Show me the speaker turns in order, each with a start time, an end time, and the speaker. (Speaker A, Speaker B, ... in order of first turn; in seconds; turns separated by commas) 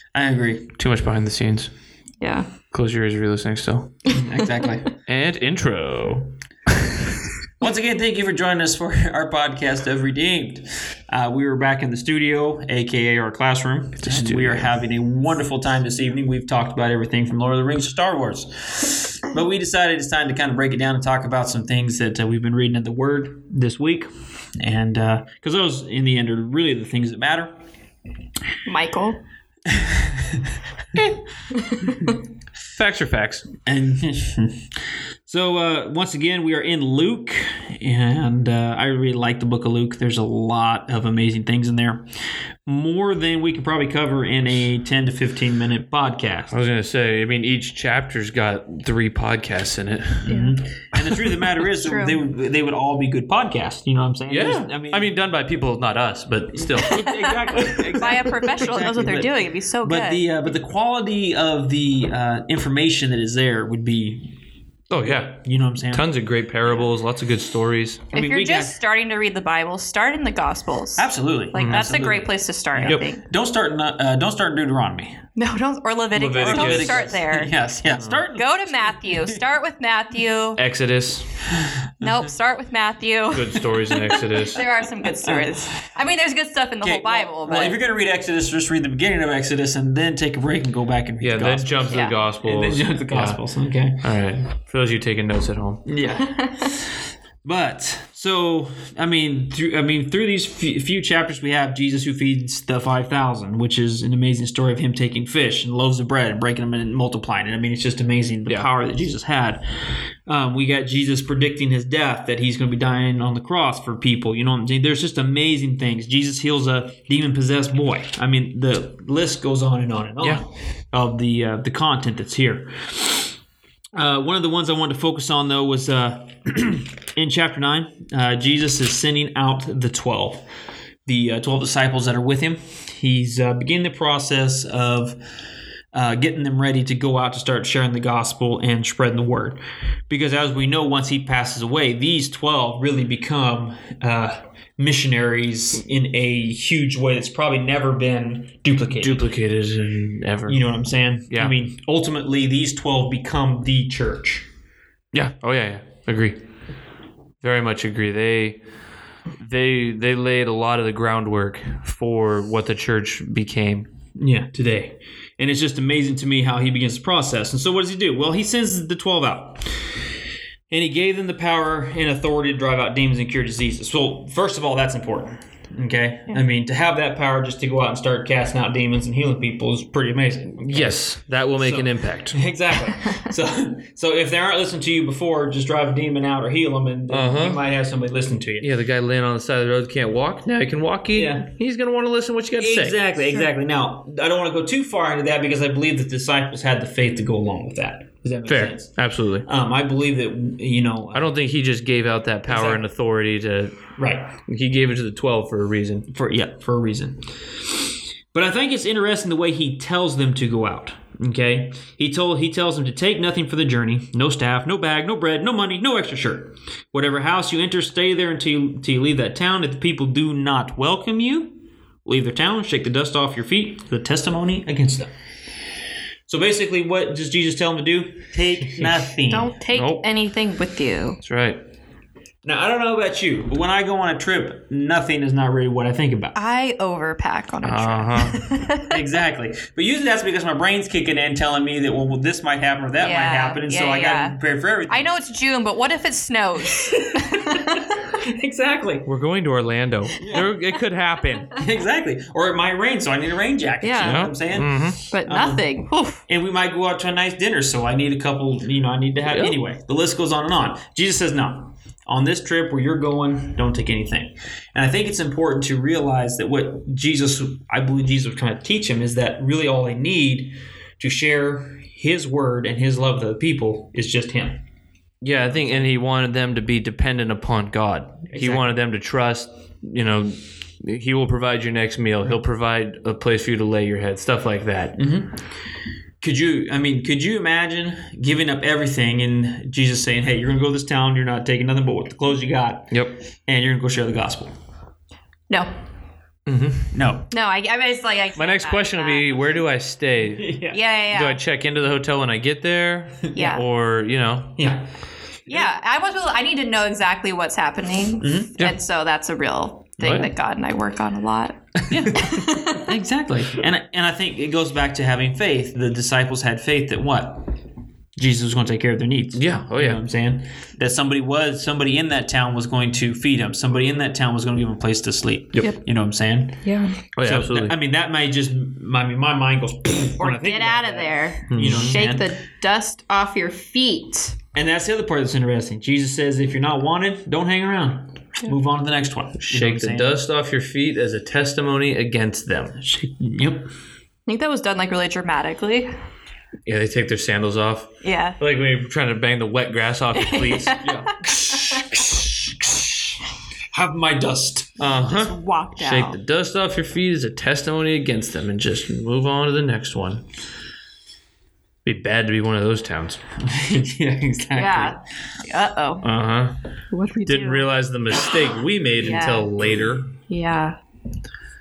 Speaker A: 0.1-0.7, Speaker B: 0.8-1.7, Speaker C: 2.2-2.5, Speaker B: 2.7-4.0, Speaker A: 4.1-4.9, Speaker B: 5.0-6.3, Speaker A: 7.6-27.5, Speaker B: 14.0-14.7, Speaker C: 28.6-29.2, Speaker A: 29.7-30.4, Speaker B: 30.9-31.2, Speaker C: 31.6-32.1, Speaker B: 32.6-33.5, Speaker A: 33.6-34.7, Speaker A: 35.2-42.0, Speaker A: 42.6-46.5, Speaker B: 46.5-50.4, Speaker A: 50.3-55.1, Speaker C: 50.3-50.5, Speaker C: 51.8-52.2, Speaker B: 54.3-58.3, Speaker A: 56.5-64.3, Speaker C: 58.0-60.2, Speaker B: 64.9-68.0, Speaker A: 65.0-66.1, Speaker A: 68.1-68.8, Speaker C: 68.1-73.2, Speaker A: 71.0-75.2, Speaker C: 75.3-77.5, Speaker B: 76.1-77.2, Speaker A: 76.4-79.3, Speaker B: 77.9-78.2, Speaker C: 78.3-80.6, Speaker B: 80.6-81.4, Speaker C: 82.0-87.8, Speaker B: 83.3-84.6, Speaker A: 86.8-94.0, Speaker B: 91.2-93.4, Speaker C: 91.9-92.2, Speaker B: 94.0-95.8, Speaker A: 95.8-123.3, Speaker A: 123.9-130.4, Speaker A: 131.1-135.2, Speaker A: 135.9-149.2, Speaker B: 148.9-150.7, Speaker A: 150.4-154.4, Speaker B: 155.1-156.4, Speaker B: 157.4-158.6, Speaker B: 159.4-163.9, Speaker A: 164.2-170.0, Speaker A: 170.7-181.0, Speaker B: 180.7-182.4, Speaker A: 181.6-188.7, Speaker B: 187.1-187.6, Speaker B: 188.6-193.0, Speaker A: 191.1-191.4, Speaker A: 192.6-201.3, Speaker B: 198.5-199.4, Speaker B: 201.1-203.8, Speaker A: 202.5-202.8, Speaker A: 204.0-204.3, Speaker B: 204.5-206.1, Speaker A: 206.1-225.1, Speaker A: 226.3-229.5, Speaker C: 229.3-231.2, Speaker B: 229.7-230.0, Speaker B: 231.2-231.6, Speaker A: 232.4-236.3, Speaker C: 236.3-238.9, Speaker B: 237.6-238.4, Speaker A: 238.8-245.1, Speaker C: 243.0-244.3, Speaker C: 244.9-247.8, Speaker A: 246.8-249.1, Speaker B: 249.0-251.5, Speaker A: 250.2-250.5, Speaker A: 251.5-255.7, Speaker C: 253.8-254.3, Speaker B: 254.0-255.0, Speaker C: 255.1-256.2, Speaker A: 256.3-274.6, Speaker B: 259.2-259.5, Speaker B: 275.2-285.0, Speaker A: 278.3-278.7, Speaker A: 284.9-285.4, Speaker A: 286.2-294.5, Speaker B: 292.9-293.2, Speaker B: 296.4-296.9, Speaker A: 296.9-297.3, Speaker C: 297.3-299.6, Speaker B: 298.4-300.5, Speaker A: 300.4-300.8, Speaker C: 300.7-301.4, Speaker B: 301.1-304.7, Speaker C: 303.3-303.6, Speaker A: 304.6-304.8, Speaker C: 305.5-311.6, Speaker A: 308.2-308.6, Speaker B: 310.0-310.3, Speaker A: 311.9-317.5, Speaker C: 312.1-312.8, Speaker A: 318.2-326.6, Speaker B: 319.3-320.0, Speaker C: 326.6-327.0, Speaker B: 327.2-327.7, Speaker A: 327.2-332.2, Speaker C: 330.2-334.4, Speaker B: 331.5-332.0, Speaker A: 334.5-340.1, Speaker B: 339.4-342.8, Speaker A: 342.8-343.7, Speaker C: 344.3-345.9, Speaker B: 346.6-351.1, Speaker C: 348.0-348.4, Speaker C: 350.1-351.9, Speaker A: 350.8-352.1, Speaker A: 353.7-354.8, Speaker B: 354.8-360.2, Speaker C: 355.1-356.2, Speaker B: 361.8-363.2, Speaker A: 363.4-364.9, Speaker C: 364.5-366.0, Speaker B: 366.0-366.6, Speaker C: 366.9-367.7, Speaker B: 367.2-370.0, Speaker C: 369.0-369.6, Speaker A: 369.6-369.9, Speaker C: 370.3-370.8